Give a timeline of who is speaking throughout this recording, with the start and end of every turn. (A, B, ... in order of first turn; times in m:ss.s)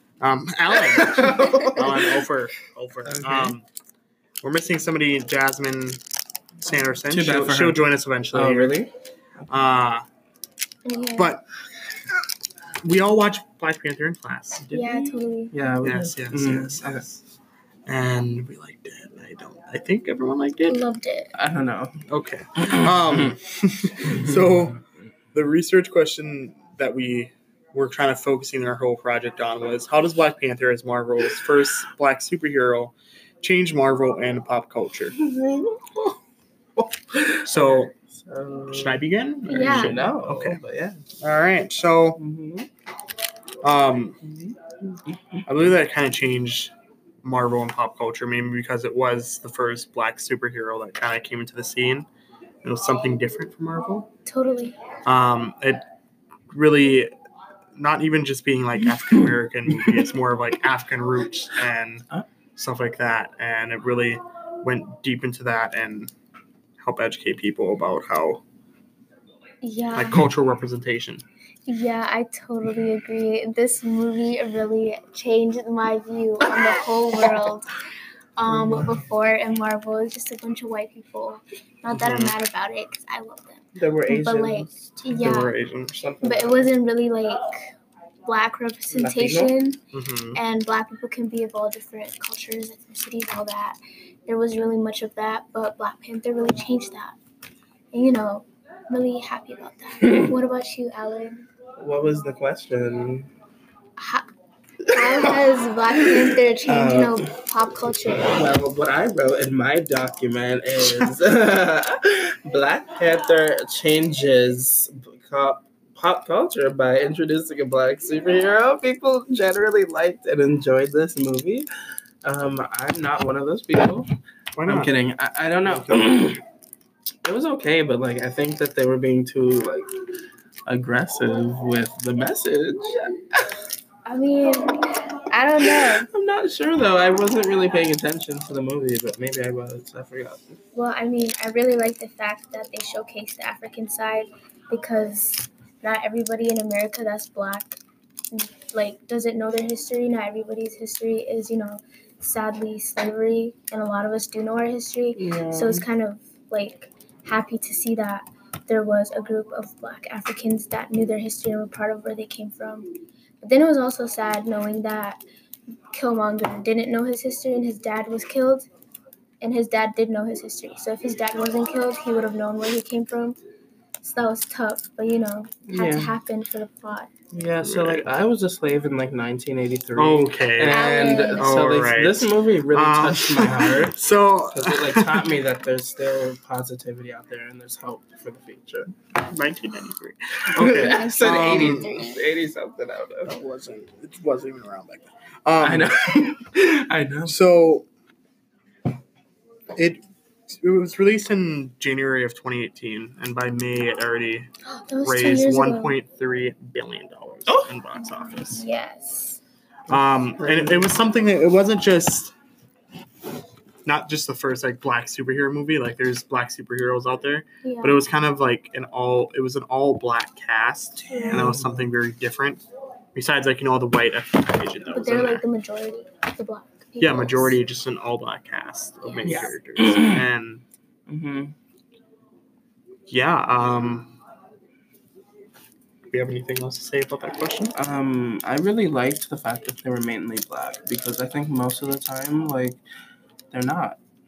0:00.2-0:03.7 A
0:00.7-0:02.2 B
0:03.1-0:03.5 B
0:04.4-0:06.0 A
0:06.6-0:08.8 A
0:07.1-0:08.9 B
0:09.5-0:10.0 A
0:10.8-0:11.3 C
0:11.2-0:11.4 A
0:12.8-0:14.7 A
0:14.7-0:17.0 B
0:14.7-0:15.5 C
0:15.8-0:17.2 A
0:17.9-0:20.8 A
0:20.7-0:21.3 C
0:21.4-0:22.0 B
0:22.1-0:24.8 A
0:22.6-0:23.4 B
0:24.0-0:24.5 B
0:25.3-0:35.2 A
0:35.2-0:36.2 B
0:36.8-0:41.0 B
0:37.4-0:37.9 A
0:38.7-0:40.6 A
0:39.5-0:40.0 C
0:41.2-0:42.2 A
0:42.2-0:42.7 B
0:43.6-0:44.2 A
0:44.2-0:45.4 B
0:45.5-0:46.7 A
0:47.2-0:52.1 A
0:52.6-0:54.1 A
0:54.3-0:54.8 C
0:55.0-0:55.8 A
0:56.5-0:57.1 A
0:57.8-1:06.1 A
0:58.9-1:00.0 B
1:06.8-1:08.4 A
1:09.6-1:10.3 C
1:10.0-1:11.2 A
1:11.7-1:17.7 C
1:18.4-1:25.6 C
1:18.5-1:18.9 B
1:21.9-1:22.4 A
1:23.8-1:25.4 B
1:25.2-1:26.0 A
1:25.9-1:26.6 B
1:26.2-1:27.7 C
1:28.3-1:29.8 C
1:28.9-1:29.5 B
1:29.9-1:30.4 A
1:30.3-1:37.2 C
1:37.9-1:41.5 C
1:41.8-1:43.3 B
1:44.0-1:44.3 C
1:44.9-1:48.6 C
1:44.9-1:45.4 B
1:46.0-1:47.3 B
1:48.3-2:01.7 B
2:02.2-2:04.1 B
2:04.6-2:04.9 A
2:04.6-2:06.4 B
2:05.7-2:06.2 A
2:07.2-2:09.9 B
2:10.7-2:13.5 B
2:14.1-2:16.1 C
2:15.6-2:20.6 B
2:20.7-2:27.8 C
2:28.3-2:42.9 C
2:35.2-2:35.8 B
2:43.4-2:45.2 C
2:45.9-2:48.7 C
2:49.4-2:53.4 C
2:54.0-2:57.1 C
2:55.7-2:56.2 B
2:57.3-3:04.0 B
2:57.6-2:58.1 A
3:00.0-3:05.3 A
3:00.7-3:01.5 C
3:04.5-3:08.9 B
3:09.3-3:12.0 A
3:10.6-3:13.4 B
3:10.8-3:12.2 C
3:13.2-3:16.1 A
3:15.6-3:17.4 B
3:17.3-3:17.9 A
3:19.7-3:24.5 A
3:24.6-3:26.0 C
3:25.0-3:28.6 A
3:28.1-3:29.4 C
3:29.9-3:32.3 A
3:30.4-3:30.9 B
3:33.8-3:45.4 A
3:37.6-3:38.0 C
3:41.0-3:41.9 B
3:44.9-3:47.6 C
3:47.0-3:50.6 A
3:49.0-3:49.5 C
3:49.2-3:50.2 B
3:51.1-3:51.5 B
3:53.1-3:54.2 A
3:56.1-3:57.7 A
3:57.8-4:02.8 B
4:03.5-4:04.0 B